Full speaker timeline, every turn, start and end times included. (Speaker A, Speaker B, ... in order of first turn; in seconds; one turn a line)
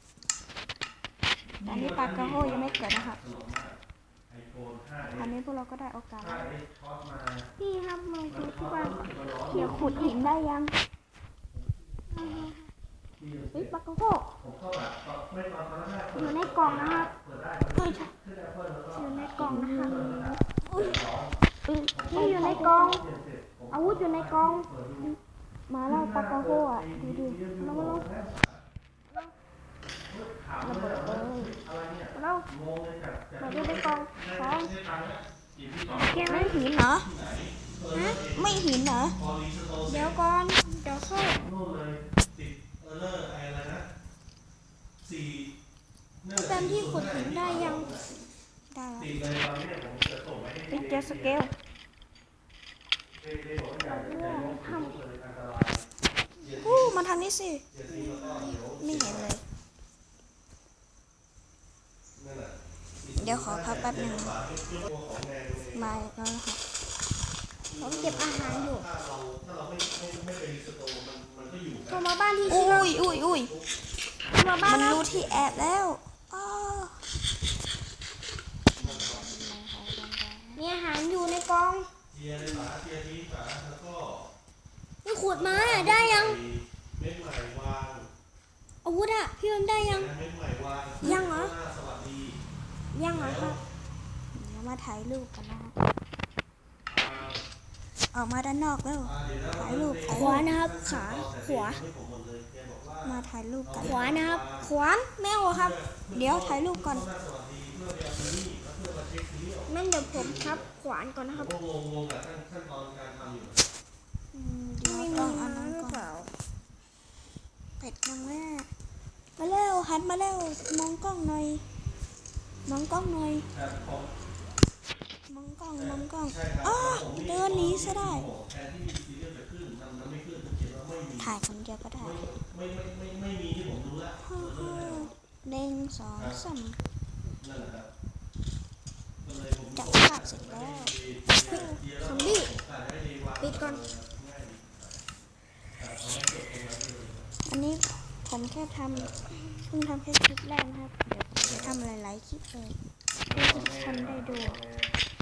Speaker A: 1.6-5.3
Speaker B: 1.6-3.2
Speaker B: 5.1-6.5
Speaker A: 6.2-7.5
Speaker C: 7.6-10.3
Speaker A: 8.3-10.2
Speaker B: 9.5-10.8
Speaker A: 11.5-12.5
Speaker C: 12.1-12.5
Speaker A: 13.2-13.8
Speaker C: 13.5-14.3
Speaker A: 14.4-21.3
Speaker C: 16.1-17.1
Speaker B: 17.8-18.1
Speaker C: 18.9-20.1
Speaker B: 19.4-20.4
Speaker C: 20.6-21.0
Speaker B: 21.6-23.0
Speaker A: 21.9-25.1
Speaker C: 22.1-23.0
Speaker C: 23.7-24.7
Speaker B: 25.7-27.4
Speaker A: 25.9-28.6
Speaker C: 27.6-28.1
Speaker A: 30.1-40.2
Speaker B: 30.6-31.6
Speaker C: 32.1-32.5
Speaker C: 33.4-34.7
Speaker C: 35.9-36.6
Speaker B: 36.1-37.1
Speaker C: 37.9-38.2
Speaker B: 38.3-39.2
Speaker C: 39.9-41.4
Speaker A: 41.2-43.9
Speaker A: 45.0-45.5
Speaker A: 46.2-48.1
Speaker C: 46.4-48.0
Speaker B: 48.7-49.2
Speaker A: 49.0-51.5
Speaker B: 50.7-51.5
Speaker A: 53.2-55.8
Speaker B: 53.9-54.5
Speaker C: 54.0-55.0
Speaker A: 56.4-57.0
Speaker B: 56.5-59.4
Speaker A: 57.7-59.4
Speaker A: 62.1-66.1
Speaker B: 63.1-64.3
Speaker B: 65.7-66.6
Speaker A: 67.7-73.7
Speaker C: 67.8-68.8
Speaker C: 71.9-72.9
Speaker B: 72.5-73.5
Speaker C: 74.3-75.0
Speaker A: 74.3-75.8
Speaker B: 74.6-77.0
Speaker B: 78.8-80.6
Speaker A: 78.8-79.3
Speaker C: 80.5-81.9
Speaker A: 82.1-84.3
Speaker C: 85.0-86.4
Speaker A: 85.3-88.1
Speaker C: 88.8-90.1
Speaker A: 89.7-92.4
Speaker C: 91.0-91.5
Speaker C: 92.9-93.6
Speaker A: 93.1-93.6
Speaker B: 94.3-95.8
Speaker A: 96.9-97.4
Speaker B: 98.1-100.5
Speaker A: 99.0-104.7
Speaker C: 100.1-101.8
Speaker B: 103.0-104.1
Speaker C: 103.8-105.8
Speaker A: 105.5-110.7
Speaker B: 106.1-107.1
Speaker C: 109.7-111.5
Speaker A: 111.3-113.6
Speaker B: 114.3-116.1
Speaker C: 114.8-116.3
Speaker A: 115.1-115.4
Speaker B: 117.8-118.7
Speaker B: 119.4-121.7
Speaker B: 122.7-123.5
Speaker A: 123.5-124.1
Speaker B: 125.3-128.3
Speaker A: 125.8-131.3
Speaker B: 131.2-132.2
Speaker A: 132.0-135.1
Speaker B: 134.2-136.8
Speaker A: 136.2-136.4
Speaker A: 137.3-137.9
Speaker A: 139.2-145.0
Speaker B: 139.7-141.7
Speaker C: 141.5-142.5
Speaker C: 143.4-143.8
Speaker A: 145.8-147.3
Speaker B: 147.4-152.8
Speaker A: 148.9-149.2
Speaker A: 151.4-151.8
Speaker A: 153.3-154.9
Speaker B: 153.3-154.6